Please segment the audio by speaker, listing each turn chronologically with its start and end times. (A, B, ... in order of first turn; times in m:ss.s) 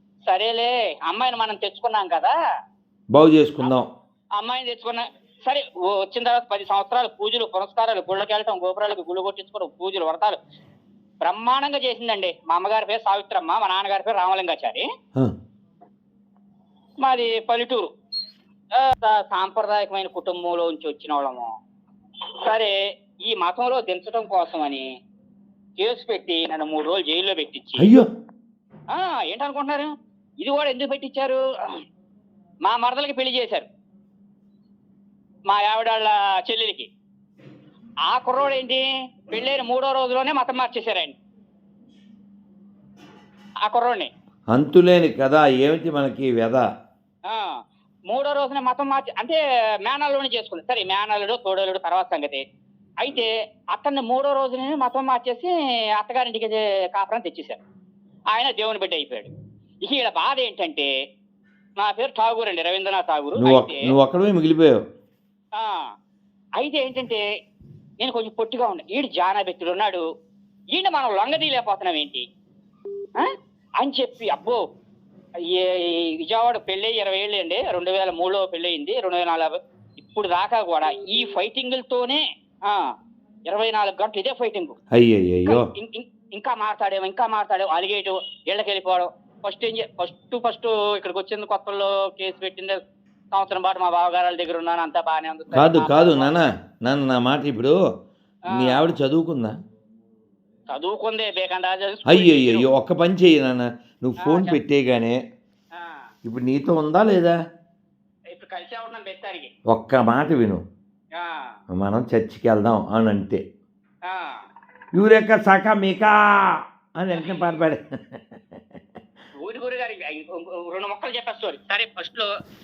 0:00.3-0:02.3 A
0:03.1-0:03.9 B
0:04.4-0:10.4 A
0:11.2-0:14.9 A
0:17.0-0:17.9 A
0:18.7-0:21.5 A
0:22.4-0:24.8 A
0:25.8-0:27.9 A
0:27.8-0:28.1 B
0:28.9-0:31.4 A
0:32.6-0:33.7 A
0:35.5-0:36.9 A
0:38.1-0:41.2 A
0:43.6-0:44.1 A
0:44.5-0:46.6 B
0:47.3-0:47.6 A
0:48.1-0:52.4 A
0:53.0-0:57.6 A
0:58.3-0:59.3 A
0:59.8-1:00.9 A
1:01.8-1:03.9 A
1:03.4-1:04.8 B
1:05.6-1:05.9 A
1:06.6-1:07.2 A
1:08.0-1:10.0 A
1:10.7-1:12.2 A
1:13.8-1:14.6 A
1:15.4-1:22.9 A
1:23.5-1:24.8 A
1:24.9-1:25.6 B
1:25.4-1:32.8 A
1:33.3-1:36.4 A
1:35.5-1:37.8 B
1:38.5-1:38.9 A
1:38.5-1:39.5 B
1:40.7-1:42.7 A
1:42.1-1:45.2 B
1:44.2-1:44.6 A
1:45.7-1:46.1 A
1:46.2-1:47.4 B
1:48.3-1:49.5 A
1:49.7-1:50.6 B
1:51.2-1:51.6 A
1:51.8-1:53.4 B
1:54.1-1:54.4 A
1:55.0-1:58.8 B
1:59.4-2:02.3 A